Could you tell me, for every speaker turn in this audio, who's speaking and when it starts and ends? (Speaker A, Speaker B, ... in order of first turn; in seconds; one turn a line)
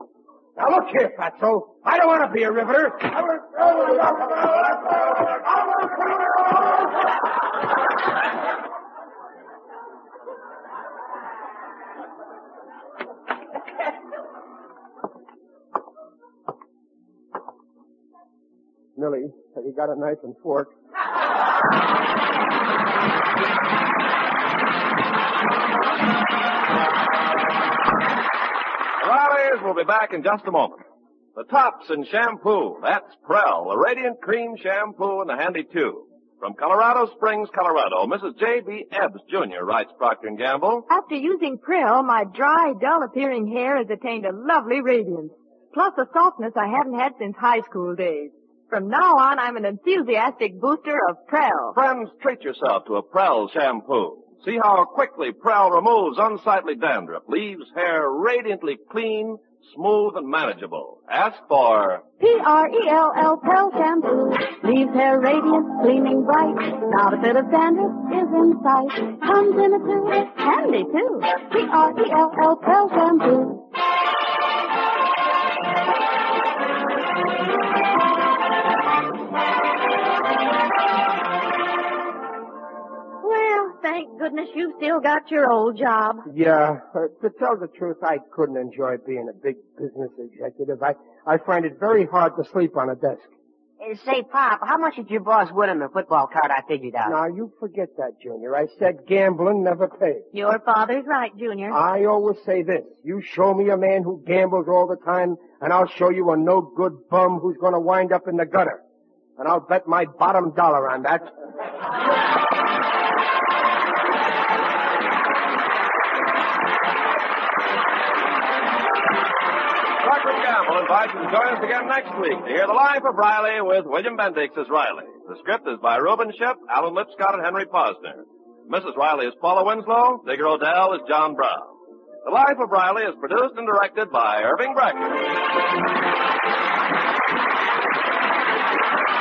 Speaker A: 0.6-6.7
Speaker A: 18.9-20.7
Speaker B: 29.0-30.8
Speaker B: 31.4-40.9
Speaker C: 40.9-51.8
Speaker B: 51.7-62.0
Speaker D: 62.2-73.6
Speaker E: 83.2-86.2
Speaker A: 86.3-93.3
Speaker F: 93.8-97.2
Speaker A: 97.0-100.2
Speaker E: 100.3-101.8
Speaker A: 101.7-108.8
Speaker A: 109.4-111.3
Speaker B: 120.0-131.7
Speaker B: 132.2-135.3